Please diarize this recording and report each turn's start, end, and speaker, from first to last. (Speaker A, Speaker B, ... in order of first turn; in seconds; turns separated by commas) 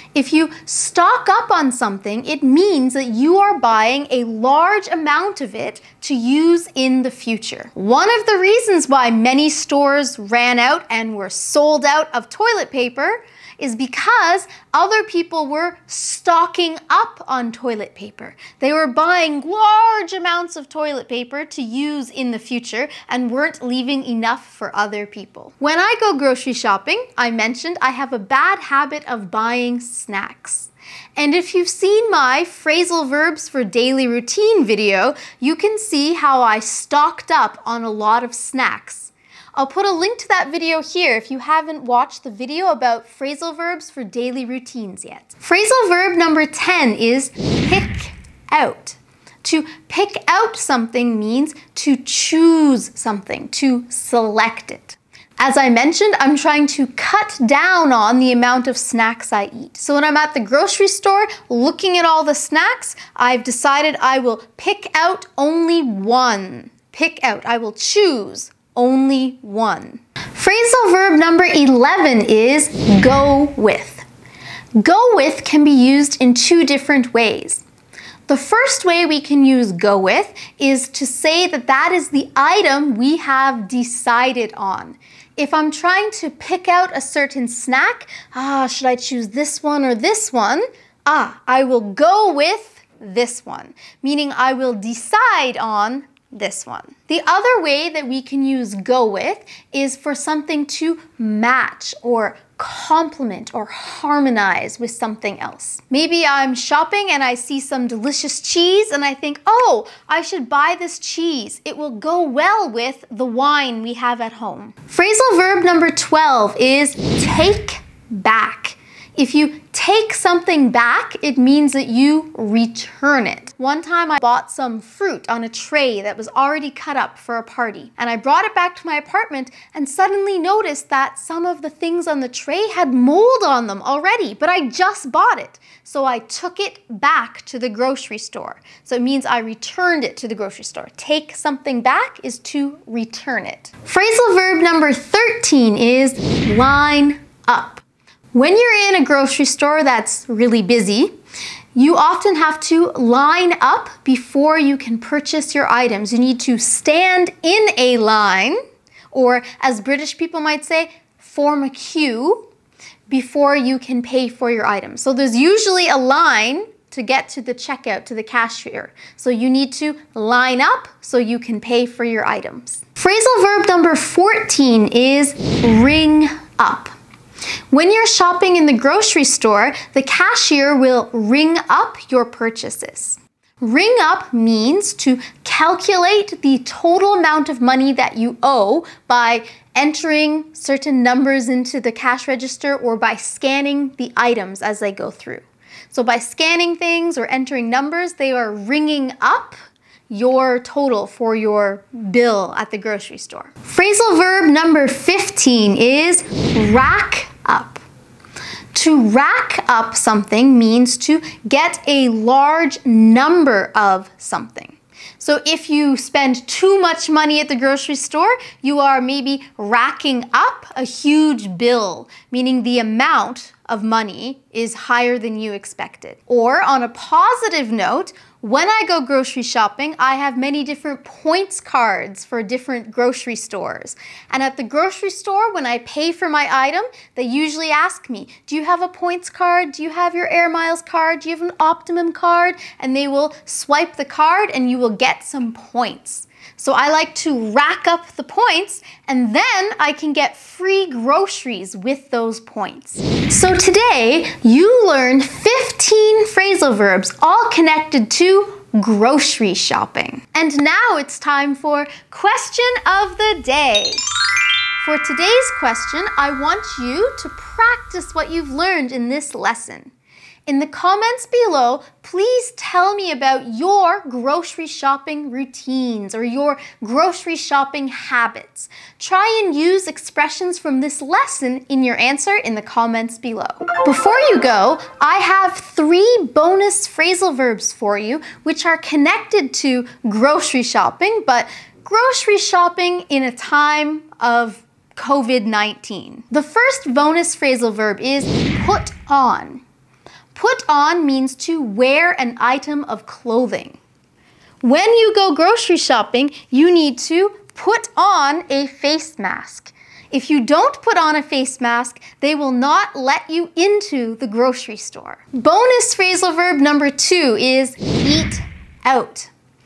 Speaker A: 0.1-74.1, Speaker A: 74.8-77.7, Speaker A: 78.3-151.1, Speaker A: 151.8-158.6, Speaker A: 159.1-162.5, Speaker A: 163.1-176.9, Speaker A: 177.7-199.6, Speaker A: 200.1-207.8, Speaker A: 208.7-264.0, Speaker A: 264.8-269.9, Speaker A: 270.5-299.6, Speaker A: 300.3-303.8, Speaker A: 304.6-319.3